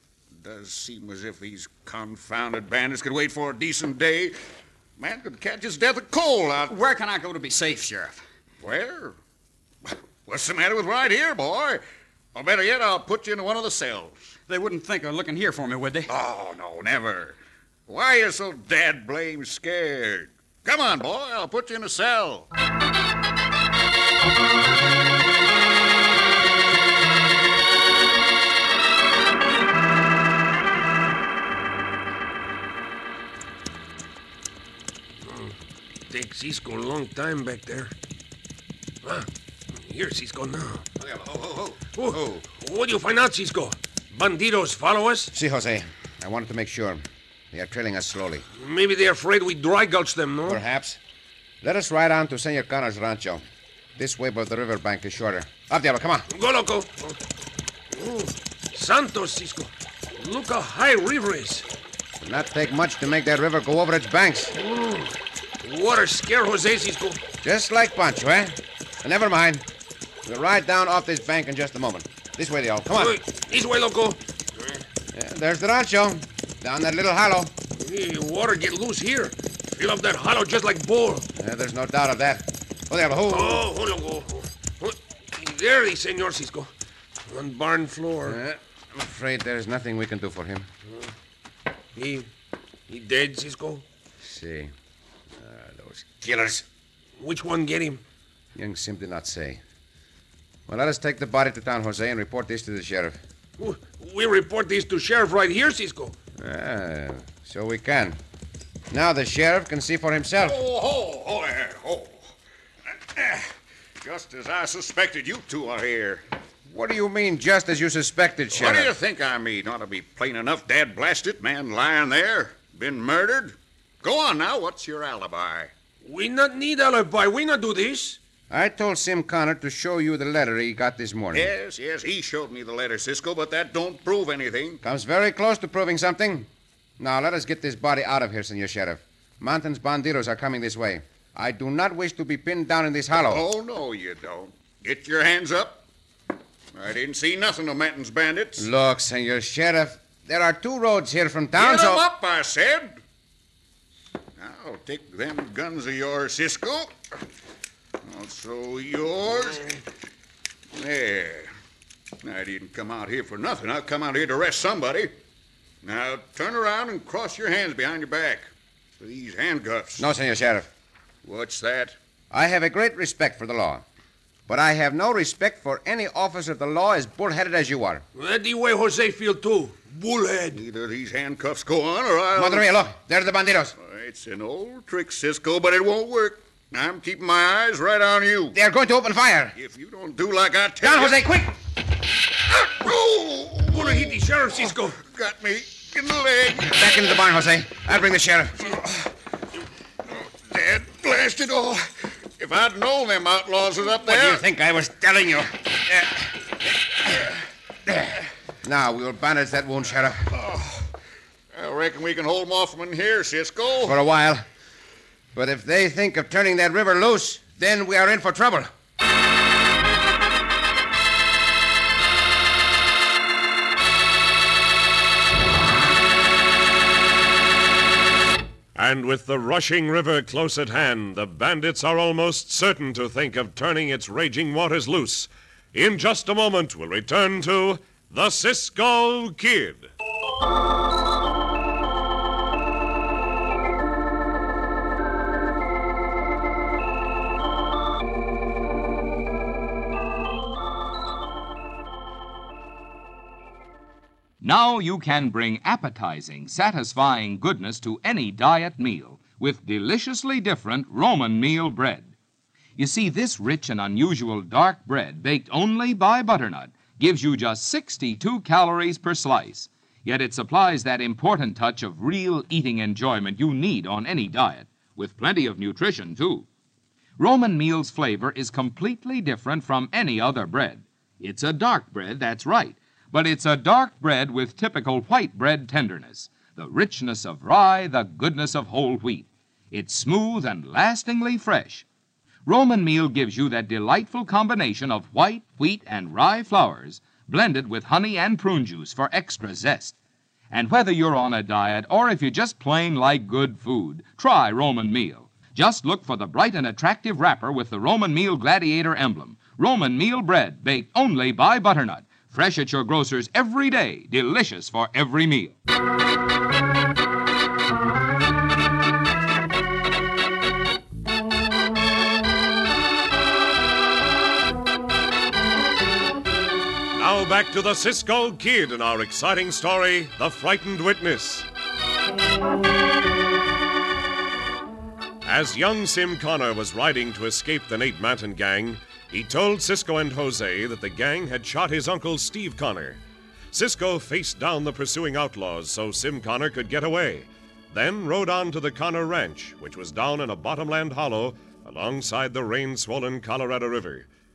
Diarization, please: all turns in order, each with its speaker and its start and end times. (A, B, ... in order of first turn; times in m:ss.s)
0:00.4-0:04.3 A
0:05.0-0:06.8 A
0:06.7-0:08.2 B
0:08.6-0:09.1 A
0:10.2-0:11.8 A
0:12.3-0:14.2 A
0:14.5-0:16.1 B
0:16.1-0:17.4 A
0:17.9-0:22.5 A
0:35.2-0:35.6 C
0:36.1-0:37.9 C
0:39.0-0:40.8 C
0:41.0-0:42.4 D
0:41.9-0:45.3 C
0:45.3-0:48.4 D
0:48.5-0:50.6 C
0:50.5-0:51.0 D
0:51.6-0:53.4 D
0:54.0-0:56.2 D
0:56.3-0:57.2 C
0:57.9-1:01.6 C
1:02.2-1:04.5 D
1:04.5-1:05.1 C
1:05.6-1:07.2 C
1:07.4-1:09.6 D
1:10.2-1:13.2 D
1:12.9-1:14.8 C
1:15.1-1:17.5 D
1:17.7-1:21.3 C
1:21.4-1:23.6 D
1:23.3-1:26.7 C
1:27.3-1:28.4 C
1:28.3-1:30.7 D
1:31.9-1:32.3 C
1:32.9-1:33.8 C
1:34.2-1:34.7 D
1:35.4-1:36.6 D
1:37.2-1:38.0 C
1:38.6-1:39.6 D
1:40.7-1:43.2 D
1:43.6-1:46.2 C
1:46.4-1:48.2 D
1:48.9-1:50.6 D
1:50.4-1:52.3 A
1:52.9-1:56.2 A
1:56.7-1:58.9 D
1:58.5-2:05.7 A
2:06.0-2:08.2 C
2:08.5-2:11.5 D
2:11.3-2:14.8 A
2:14.8-2:16.5 D
2:17.0-2:23.4 D
2:23.1-2:25.8 A
2:26.7-2:28.7 A
2:28.6-2:32.0 D
2:31.6-2:33.0 A
2:34.4-2:37.0 A
2:38.0-2:39.8 A
2:40.8-2:41.5 A
2:42.2-2:45.1 A
2:45.8-2:50.1 A
2:50.0-2:50.7 D
2:51.2-2:52.0 A
2:52.3-2:53.8 D
2:54.5-2:58.0 D
2:58.1-3:00.6 C
3:00.5-3:02.7 A
3:02.4-3:03.7 D
3:03.7-3:08.6 A
3:08.5-3:09.5 D
3:09.5-3:11.2 A
3:10.8-3:11.5 D
3:12.5-3:17.2 A
3:13.7-3:15.0 C
3:16.6-3:18.6 D
3:18.6-3:19.1 A
3:20.1-3:24.4 A
3:23.9-3:26.4 D
3:28.6-3:30.2 D
3:30.3-3:30.9 A
3:31.5-3:34.0 A
3:33.8-3:34.4 D
3:35.3-3:38.7 D
3:48.7-3:59.9 E
4:14.4-4:22.1 F
4:22.8-4:36.5 F
4:37.2-4:51.8 F
4:52.4-5:00.0 F
5:00.5-5:15.5 F
5:26.9-5:31.4 E
5:35.2-5:43.0 E
5:43.5-5:54.1 E